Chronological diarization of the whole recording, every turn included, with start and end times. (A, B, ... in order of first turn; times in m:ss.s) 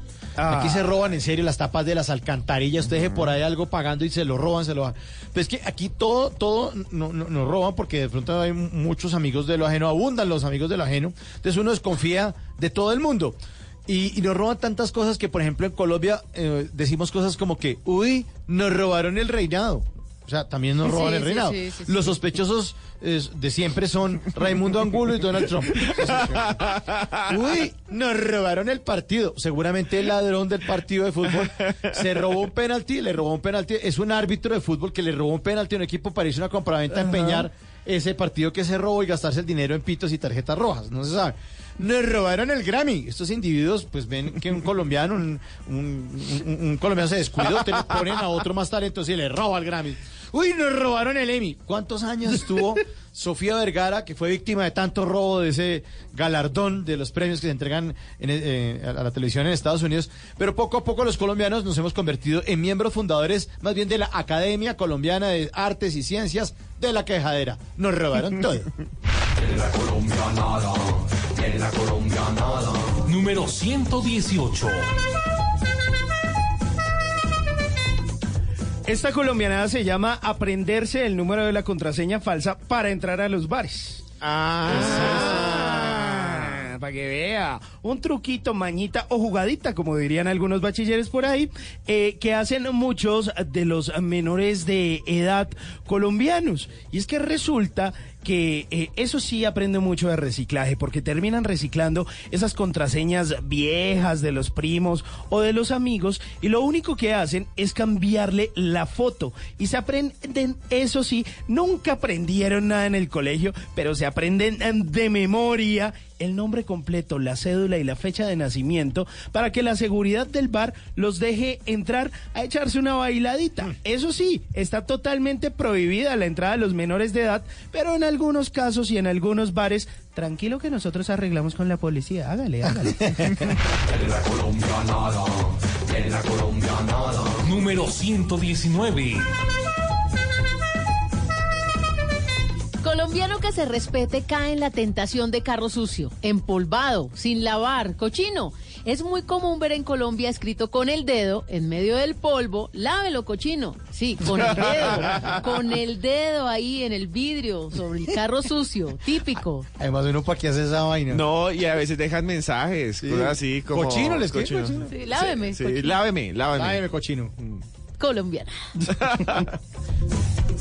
0:00.4-0:00.8 A
0:00.4-0:26.6 B
0:02.9-0:03.3 C
0:20.8-0:22.1 D
0:25.8-0:27.3 C
0:27.3-1:08.7 B
0:31.3-0:31.9 C
0:37.1-0:37.4 A
1:13.0-1:14.9 E
1:18.9-1:24.0 A
1:24.2-1:26.6 C
1:24.6-2:13.5 A
2:13.1-2:13.4 B
2:17.4-2:19.3 E
2:22.8-2:39.7 D
2:34.3-2:35.6 C
2:39.8-2:41.2 B
2:41.1-2:46.8 C
2:43.0-2:44.9 B
2:44.9-2:45.9 D
2:46.6-2:47.3 B
2:47.4-2:47.6 C
2:48.0-2:48.6 D
2:49.0-2:49.4 C